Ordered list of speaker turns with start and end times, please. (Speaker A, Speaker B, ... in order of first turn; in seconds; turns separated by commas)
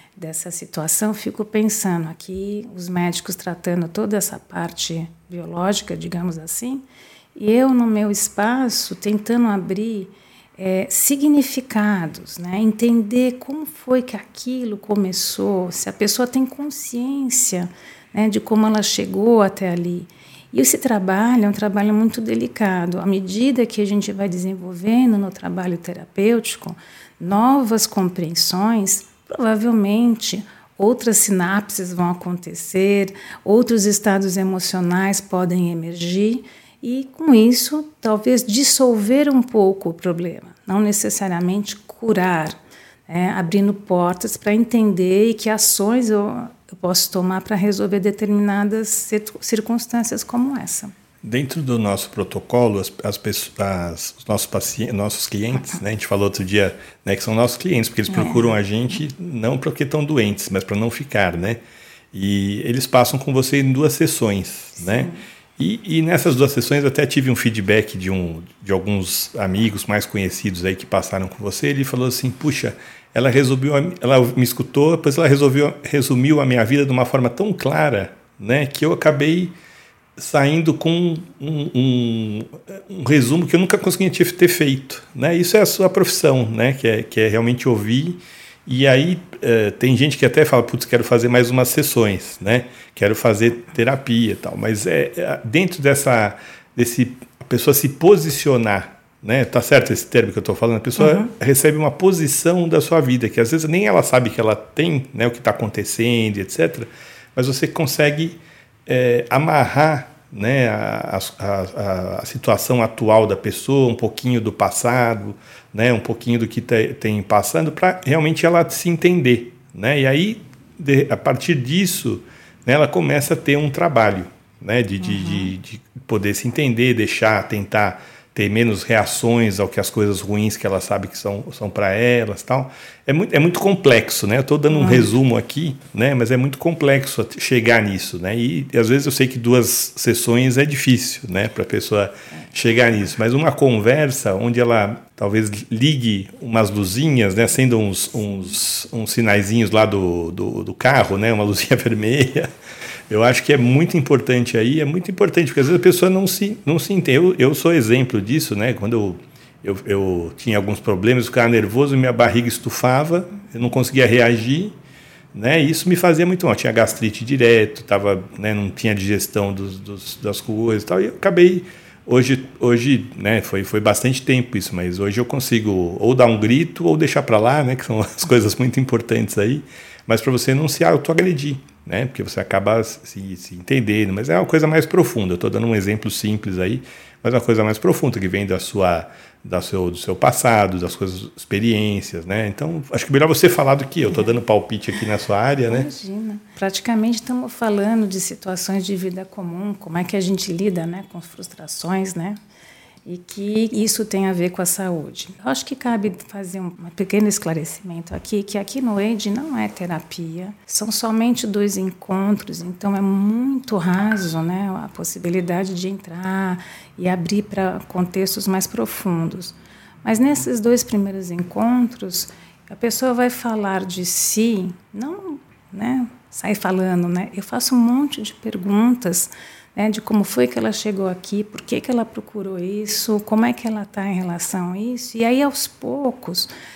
Speaker A: 0.2-6.8, Speaker A: 7.3-42.6, Speaker A: 43.1-50.9, Speaker B: 51.2-61.6, Speaker A: 58.1-58.5, Speaker B: 62.1-79.5, Speaker A: 64.8-65.2, Speaker B: 80.2-152.5, Speaker A: 101.0-101.3, Speaker A: 125.0-125.5, Speaker A: 134.7-135.1, Speaker B: 153.1-164.8, Speaker B: 165.3-195.9, Speaker A: 195.7-202.4, Speaker A: 203.1-236.5